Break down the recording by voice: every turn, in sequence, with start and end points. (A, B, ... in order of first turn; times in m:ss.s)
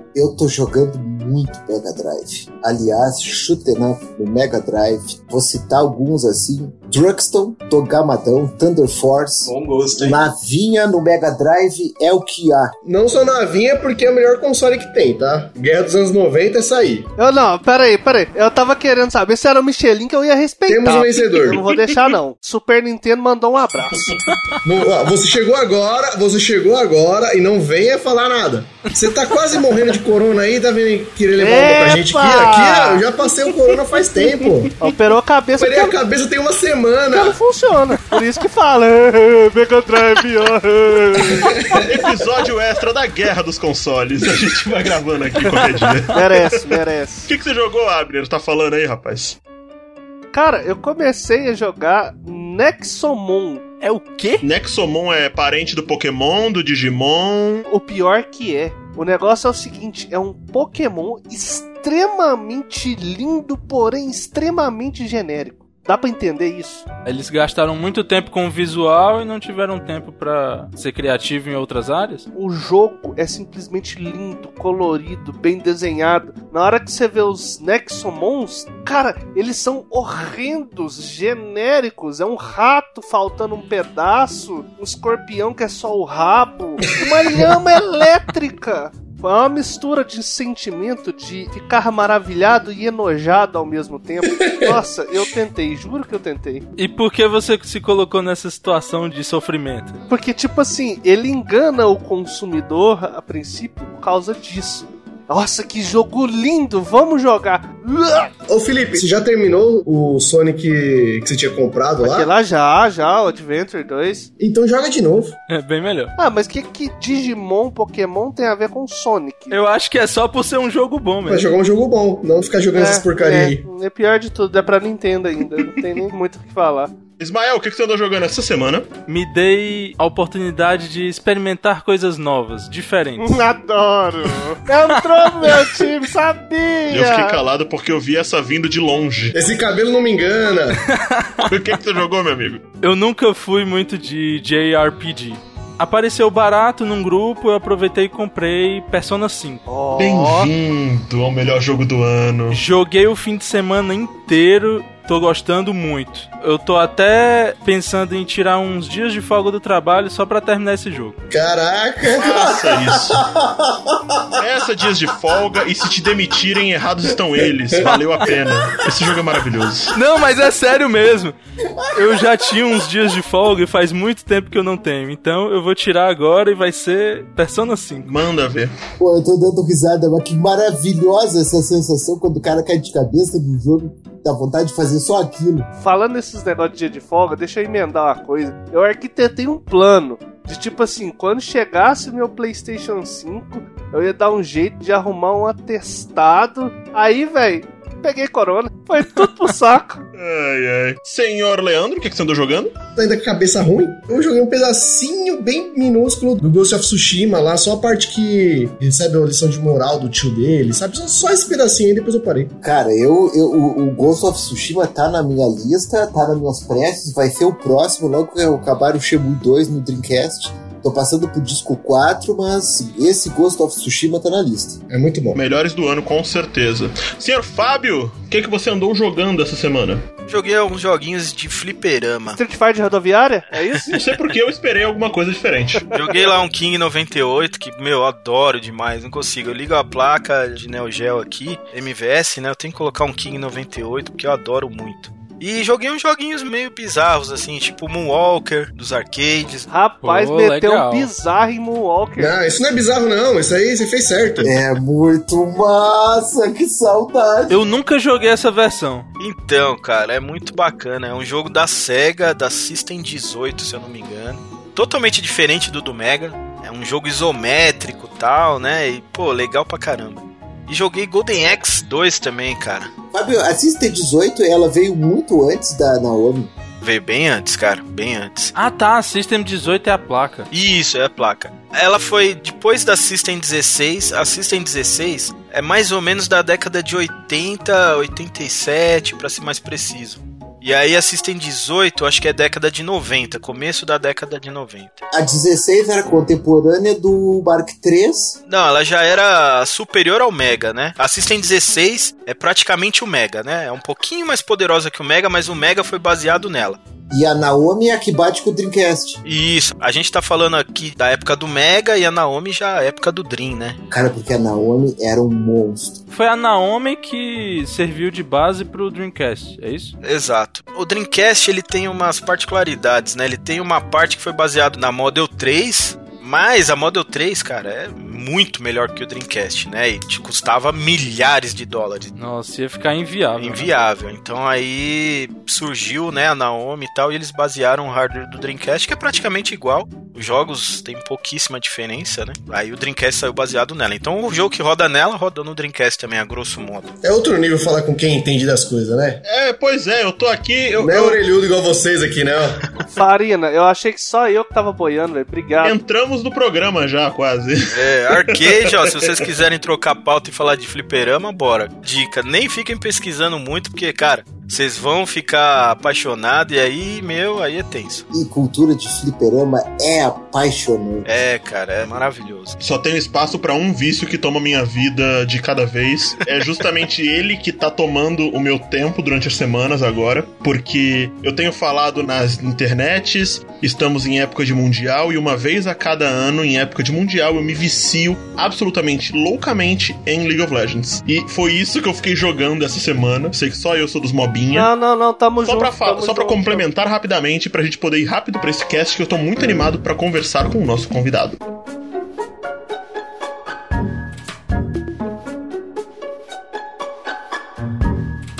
0:00.1-0:12.8 A
0:09.4-0:10.2 B
0:12.8-0:17.1 C
0:17.2-0:24.1 D
0:20.7-0:21.6 C
0:21.6-0:22.0 E
0:24.6-0:34.8 C
0:31.4-0:33.3 D
0:34.8-0:35.9 D
0:35.6-0:37.4 C
0:37.1-0:41.6 D
0:41.3-0:41.8 C
0:41.8-0:46.8 E
0:45.4-0:47.3 D
0:47.3-0:49.4 E
0:50.3-0:53.6 D
0:53.8-0:54.4 F
0:54.4-0:57.6 E
0:57.7-1:06.8 D
1:07.0-1:12.2 F
1:12.3-1:36.7 D
1:26.9-1:27.5 C
1:34.4-1:34.8 C
1:36.8-1:39.9 F
1:40.1-1:48.3 D
1:48.5-1:52.3 C
1:52.0-1:54.3 D
1:54.4-1:55.4 C
1:55.5-1:56.1 F
1:56.2-1:59.6 D
1:59.5-2:01.5 F
2:01.2-2:03.6 C
2:02.7-2:06.9 D
2:07.2-2:08.9 E
2:09.1-2:13.4 F
2:13.2-2:17.4 D
2:14.9-2:15.8 F
2:16.9-2:19.3 E
2:19.3-2:20.8 C
2:20.9-2:21.5 F
2:21.4-2:22.6 E
2:22.8-2:29.6 F
2:29.7-2:30.5 D
2:30.0-2:32.6 E
2:32.5-2:41.2 F
2:41.3-2:42.6 C
2:42.2-2:43.2 E
2:43.2-2:44.2 A
2:44.4-2:49.9 E
2:49.9-2:51.3 F
2:51.7-2:52.8 A
2:52.0-2:58.1 F
2:58.0-2:58.7 E
2:59.0-3:05.7 A
3:05.8-3:20.0 D
3:20.2-3:22.7 E
3:23.0-3:32.5 C
3:32.6-3:44.8 A
3:44.9-3:45.4 C
3:45.3-3:50.0 E
3:50.3-3:52.4 B
3:52.4-3:54.0 D
3:53.9-3:55.9 E
3:55.9-4:09.7 B
4:09.7-4:12.4 D
4:10.0-4:11.1 F
4:12.2-4:14.5 C
4:14.4-4:17.6 A
4:17.5-4:19.1 F
4:19.2-4:32.9 B
4:33.1-4:36.5 A
4:36.8-4:38.5 B
4:38.5-4:40.5 F
4:40.5-4:55.0 B
4:55.1-4:58.4 A
4:58.5-5:06.8 B
5:07.1-5:09.2 A
5:09.2-5:13.8 B
5:13.9-5:16.0 A
5:16.1-5:19.9 F
5:20.0-5:32.1 B
5:32.1-5:33.7 F
5:33.4-5:46.9 B
5:47.0-5:49.2 C
5:49.2-5:51.2 E
5:50.8-5:52.8 C
5:52.9-5:55.8 D
5:55.6-5:57.8 E
5:57.7-6:08.0 B
5:58.3-5:59.1 E
6:08.1-6:11.1 A
6:11.1-6:12.6 B
6:12.6-6:34.7 E
6:34.5-6:36.6 D
6:35.4-6:41.4 E